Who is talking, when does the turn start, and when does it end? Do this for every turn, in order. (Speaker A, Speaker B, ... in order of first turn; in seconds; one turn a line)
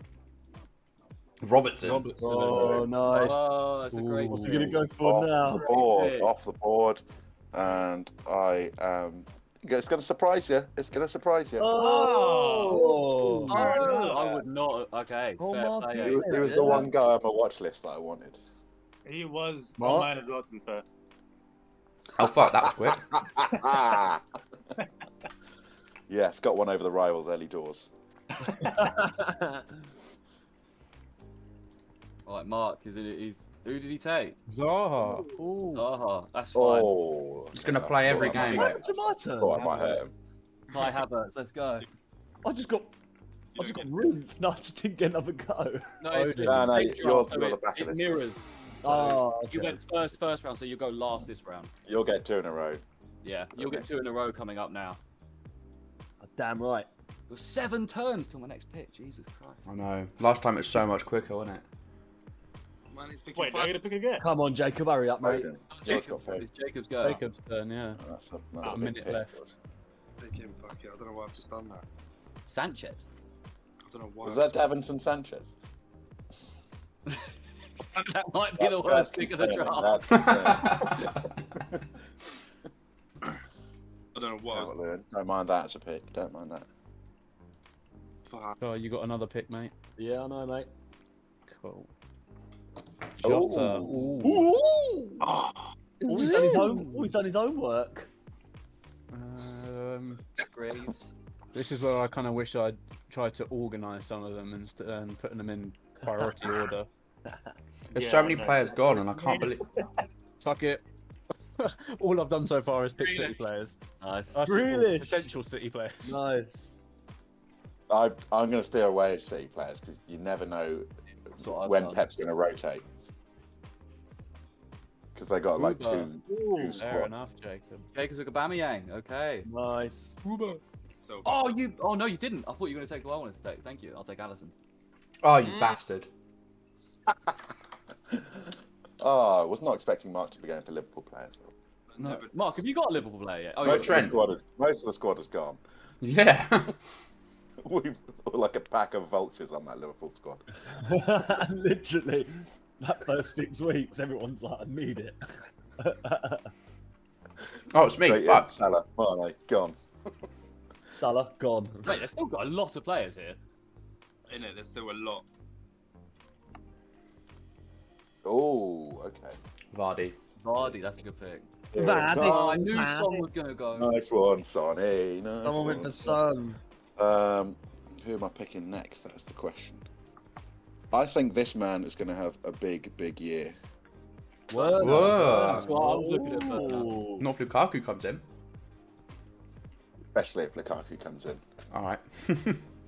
Speaker A: 1.4-2.1
Speaker B: 1.8-2.9
Speaker C: 2.2-3.4
Speaker D: 2.7-4.8
Speaker B: 3.9-4.8
Speaker C: 4.3-5.7
Speaker E: 5.0-11.7
Speaker D: 5.5-6.3
Speaker C: 11.6-13.8
Speaker F: 11.7-14.4
Speaker B: 13.2-13.9
Speaker D: 13.5-16.8
Speaker C: 15.4-16.9
Speaker E: 16.0-18.4
Speaker F: 19.1-20.8
Speaker C: 19.8-20.1
Speaker A: 22.2-23.0
Speaker E: 22.2-24.2
Speaker E: 26.1-27.9
Speaker C: 28.7-29.8
Speaker D: 32.3-34.4
Speaker B: 34.5-35.9
Speaker D: 35.7-37.0
Speaker E: 36.5-40.1
Speaker A: 37.5-38.7
Speaker D: 38.1-38.9
Speaker C: 38.4-39.8
Speaker D: 39.5-40.0
Speaker G: 40.7-41.0
Speaker D: 40.7-41.9
Speaker C: 42.4-42.9
Speaker G: 43.5-43.9
Speaker C: 43.5-45.9
Speaker D: 46.0-51.7
Speaker B: 46.1-46.8
Speaker E: 46.4-48.2
Speaker C: 48.8-49.8
Speaker E: 51.9-52.8
Speaker D: 53.2-55.0
Speaker E: 53.6-53.9
Speaker C: 56.2-56.9
Speaker D: 57.3-59.7
Speaker A: 59.7-61.6
Speaker G: 62.9-63.8
Speaker F: 63.3-64.2
Speaker C: 64.2-65.5
Speaker E: 65.2-66.5
Speaker D: 65.7-67.2
Speaker B: 67.0-68.0
Speaker E: 68.0-69.3
Speaker B: 68.6-69.6
Speaker G: 70.2-71.8
Speaker D: 72.5-73.1
Speaker G: 73.8-74.6
Speaker E: 74.2-75.5
Speaker D: 78.0-80.5
Speaker E: 78.6-81.1
Speaker A: 80.1-81.2
Speaker G: 84.2-84.8
Speaker E: 84.5-86.7
Speaker G: 88.3-88.6
Speaker B: 88.6-89.7
Speaker C: 90.0-90.7
Speaker B: 91.5-91.9
Speaker B: 93.2-94.5
Speaker E: 93.2-94.2
Speaker C: 94.2-95.3
Speaker G: 95.2-95.8
Speaker B: 96.0-97.1
Speaker C: 96.1-98.1
Speaker D: 96.2-96.7
Speaker B: 99.1-100.2
Speaker D: 100.4-101.1
Speaker B: 101.5-106.9
Speaker A: 107.9-109.6
Speaker F: 107.9-109.9
Speaker B: 110.4-110.8
Speaker B: 111.6-113.8
Speaker D: 114.0-114.5
Speaker B: 114.3-116.2
Speaker C: 114.5-115.3
Speaker C: 116.0-116.7
Speaker E: 117.9-120.9
Speaker D: 121.4-122.0
Speaker E: 121.4-122.8
Speaker E: 125.2-127.1
Speaker B: 125.6-127.9
Speaker F: 126.4-126.8
Speaker D: 127.9-129.5
Speaker C: 129.5-130.2
Speaker B: 130.3-130.6
Speaker G: 130.5-131.6
Speaker D: 131.2-134.5
Speaker A: 135.2-136.1
Speaker G: 135.4-135.8
Speaker E: 137.1-137.4
Speaker E: 138.1-141.5
Speaker G: 141.9-142.5
Speaker D: 142.0-144.3
Speaker E: 143.6-145.6
Speaker A: 143.6-144.2
Speaker A: 146.0-146.8
Speaker E: 147.6-150.4
Speaker C: 150.8-155.2
Speaker C: 155.8-156.5
Speaker A: 157.7-158.5
Speaker E: 158.0-159.8
Speaker C: 160.9-162.1
Speaker D: 161.8-163.4
Speaker G: 164.3-165.2
Speaker E: 168.2-169.4
Speaker A: 169.7-170.2
Speaker D: 170.4-173.9
Speaker E: 171.7-172.8
Speaker C: 171.7-173.3
Speaker E: 173.7-176.2
Speaker C: 175.4-176.6
Speaker E: 177.0-179.8
Speaker E: 180.9-183.6
Speaker C: 184.5-187.3
Speaker A: 184.8-185.7
Speaker D: 184.8-187.0
Speaker B: 185.1-185.8
Speaker A: 187.2-188.3
Speaker E: 190.1-191.4
Speaker A: 191.7-192.6